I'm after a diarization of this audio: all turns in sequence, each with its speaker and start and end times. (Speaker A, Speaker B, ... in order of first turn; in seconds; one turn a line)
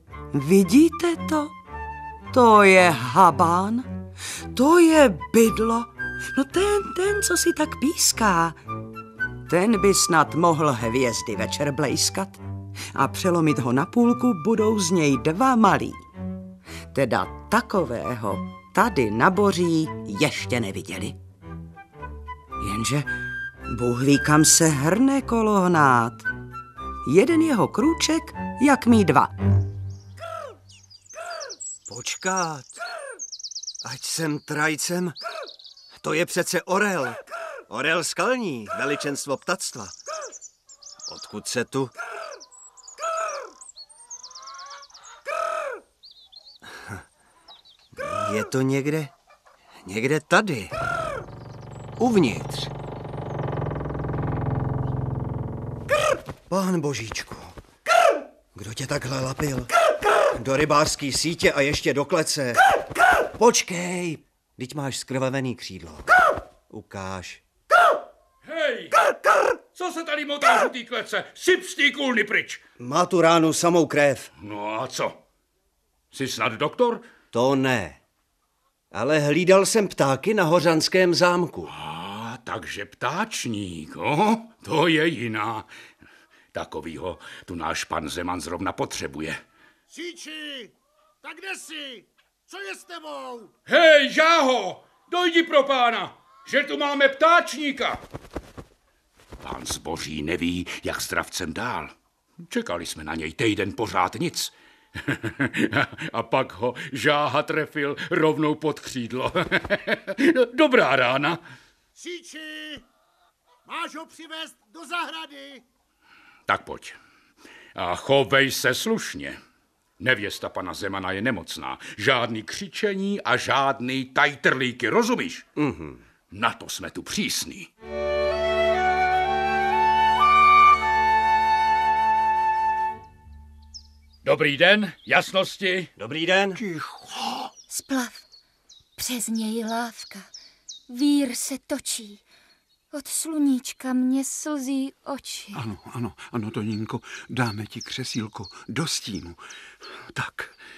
Speaker A: 0.3-1.5
Speaker A: 2.3-3.9
Speaker A: 4.5-8.6
Speaker A: 9.5-12.4
Speaker A: 12.9-16.0
Speaker A: 16.9-21.2
Speaker A: 22.6-23.1
Speaker A: 23.7-26.3
Speaker A: 27.1-29.3
Speaker B: 31.9-32.7
Speaker B: 33.8-35.1
Speaker B: 36.0-40.0
Speaker B: 41.1-41.9
Speaker B: 46.7-47.0
Speaker B: 48.0-49.1
Speaker B: 49.8-50.7
Speaker B: 52.0-52.7
Speaker B: 56.5-57.5
Speaker B: 58.5-59.7
Speaker B: 60.3-62.6
Speaker B: 63.4-66.1
Speaker B: 66.7-67.4
Speaker C: 68.4-69.0
Speaker C: 69.7-72.6
Speaker B: 72.8-74.3
Speaker C: 74.4-75.2
Speaker C: 76.1-77.0
Speaker B: 77.3-78.0
Speaker B: 78.9-81.7
Speaker C: 81.7-85.7
Speaker C: 86.5-89.4
Speaker D: 89.9-93.5
Speaker C: 93.7-98.0
Speaker C: 99.4-111.4
Speaker D: 112.0-112.8
Speaker D: 113.7-115.6
Speaker C: 116.5-117.0
Speaker C: 117.7-119.4
Speaker C: 120.0-125.4
Speaker B: 125.6-126.0
Speaker C: 126.3-127.7
Speaker C: 134.2-135.9
Speaker B: 136.0-136.6
Speaker E: 136.6-137.5
Speaker F: 137.7-138.2
Speaker F: 139.0-140.3
Speaker F: 140.9-142.2
Speaker F: 142.9-145.6
Speaker E: 145.5-149.4
Speaker E: 150.1-150.6